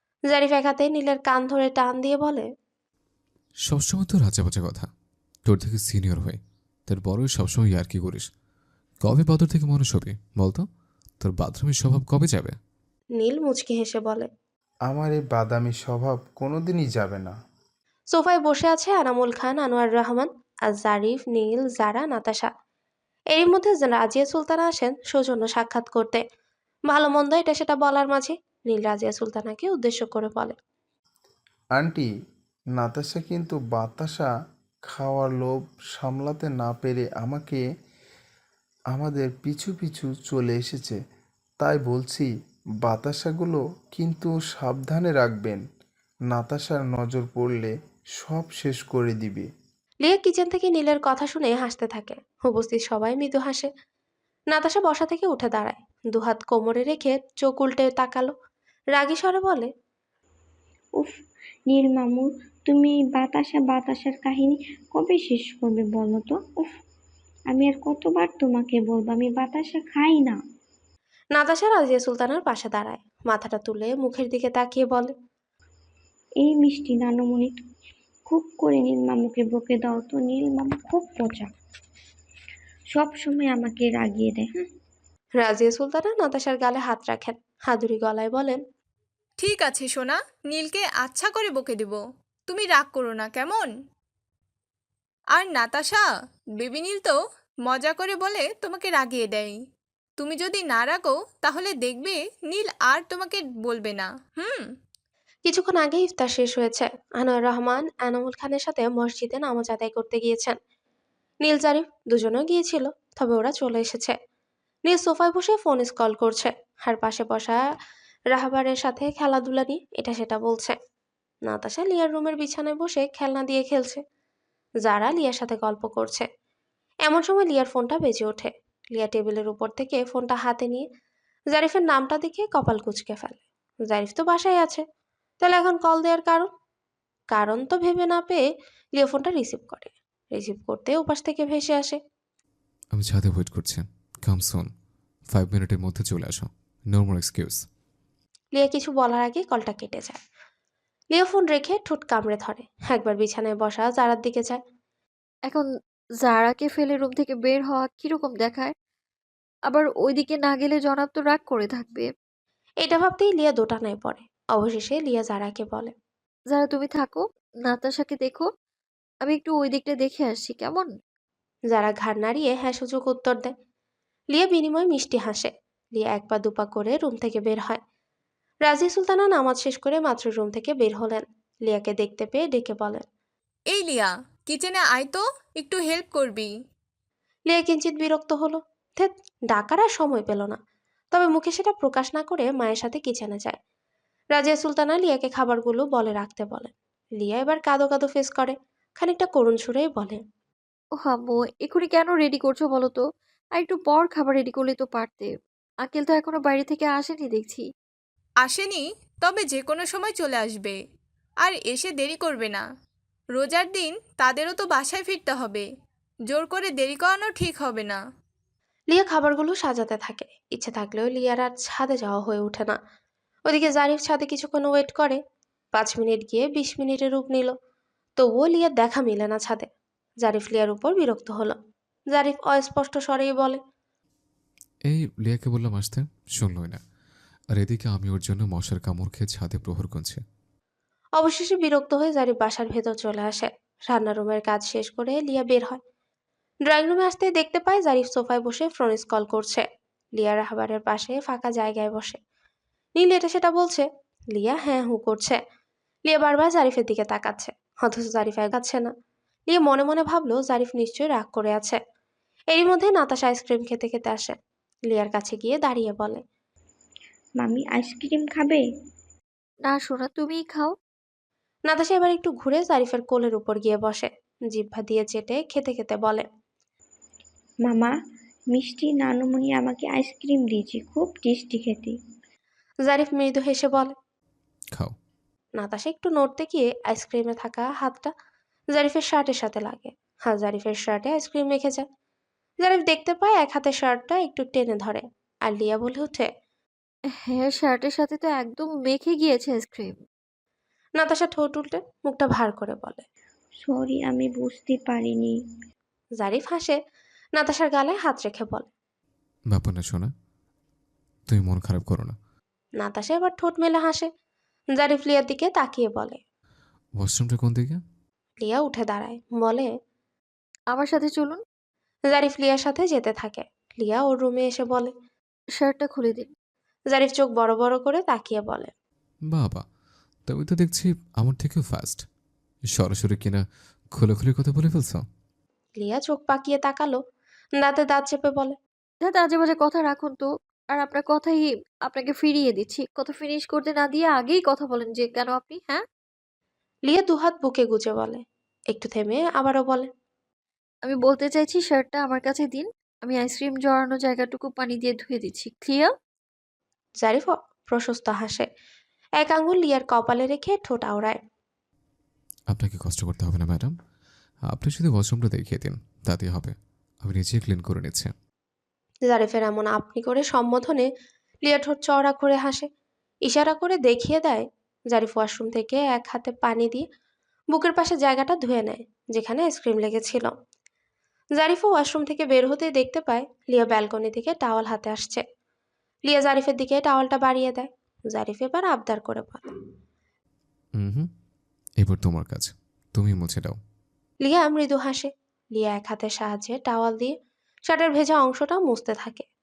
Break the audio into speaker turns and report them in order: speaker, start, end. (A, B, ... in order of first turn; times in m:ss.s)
0:00.3-0:02.5 A
0:03.6-0:04.9 B
0:05.4-0:08.2 B
0:09.0-0:10.6 B
0:11.2-0:12.6 B
0:13.2-0:14.3 A
0:14.9-0:17.3 C
0:18.1-0:22.5 A
0:23.3-0:26.2 A
0:26.9-0:30.5 A
0:31.8-0:32.1 C
0:32.8-0:34.3 C
0:34.9-0:37.6 C
0:38.9-0:41.0 C
0:41.6-0:42.3 C
0:42.8-0:45.6 C
0:46.3-0:49.5 C
0:50.0-0:53.7 A
0:54.5-0:58.3 A
0:58.9-0:59.7 A
1:01.0-1:06.8 D
1:07.5-1:10.4 D
1:11.3-1:15.1 A
1:16.4-1:17.6 D
1:18.3-1:21.5 D
1:22.9-1:24.7 D
1:25.4-1:28.6 A
1:29.4-1:33.7 E
1:35.3-1:39.6 E
1:40.2-1:44.7 E
1:45.4-1:50.6 A
1:51.4-1:54.1 A
1:54.9-1:57.6 A
1:58.3-2:00.8 A
2:01.4-2:04.0 A
2:04.8-2:06.3 A
2:07.0-2:10.8 A
2:11.5-2:14.8 A
2:15.4-2:16.5 A
2:17.3-2:18.4 A
2:19.0-2:22.0 A
2:22.9-2:24.7 B
2:25.3-2:27.6 B
2:28.5-2:30.2 A
2:31.1-2:34.6 A
2:36.2-2:38.7 F
2:39.7-2:42.1 F
2:42.8-2:45.9 A
2:46.5-2:48.5 F
2:49.2-2:50.9 F
2:51.7-2:53.5 A
2:54.3-2:57.8 A
2:58.6-3:03.0 A
3:03.7-3:06.5 E
3:07.5-3:10.6 A
3:11.1-3:13.6 A
3:14.3-3:20.2 A
3:21.0-3:23.0 F
3:23.5-3:25.3 F
3:25.8-3:27.6 F
3:28.4-3:30.8 E
3:31.4-3:32.6 E
3:33.3-3:35.7 E
3:36.3-3:38.0 E
3:38.9-3:42.8 A
3:43.5-3:45.2 A
3:45.7-3:47.5 A
3:48.2-3:49.7 A
3:50.2-3:51.6 A
3:52.1-3:53.6 A
3:54.8-3:56.8 B
3:57.5-4:00.2 B
4:01.2-4:05.8 A
4:06.7-4:09.6 A
4:10.2-4:12.2 A
4:13.0-4:15.4 A
4:16.0-4:18.9 A
4:19.5-4:21.8 A
4:22.5-4:24.3 A
4:24.9-4:26.2 A
4:27.4-4:28.6 D
4:29.6-4:30.7 F
4:31.7-4:36.2 A
4:37.6-4:37.9 D
4:38.5-4:42.0 D
4:42.8-4:43.9 A
4:45.6-4:48.1 A
4:48.7-4:51.8 A
4:52.6-4:56.3 A
4:57.2-5:00.0 F
5:01.0-5:03.0 A
5:03.6-5:05.3 D
5:06.2-5:06.8 A
5:07.4-5:08.6 A
5:09.5-5:10.1 B
5:11.3-5:12.1 B
5:12.8-5:14.1 A
5:14.7-5:16.2 A
5:17.0-5:17.8 B
5:18.4-5:19.7 A
5:20.7-5:21.4 F
5:22.1-5:24.9 A
5:25.6-5:26.3 F
5:26.9-5:28.7 A
5:29.3-5:29.6 B
5:30.3-5:32.0 B
5:32.7-5:35.0 B
5:35.8-5:37.0 A
5:37.6-5:38.6 A
5:39.0-5:45.8 F
5:46.9-5:49.9 A
5:50.8-5:55.9 F
5:57.0-5:58.5 A
5:59.2-6:01.2 A
6:02.5-6:03.7 B
6:04.5-6:08.1 B
6:09.1-6:10.9 A
6:11.4-6:12.7 A
6:13.2-6:16.8 A
6:17.5-6:20.3 A
6:21.4-6:25.2 A
6:26.1-6:29.5 A
6:30.8-6:31.1 B
6:31.8-6:33.6 B
6:34.2-6:37.1 A
6:37.7-6:39.2 A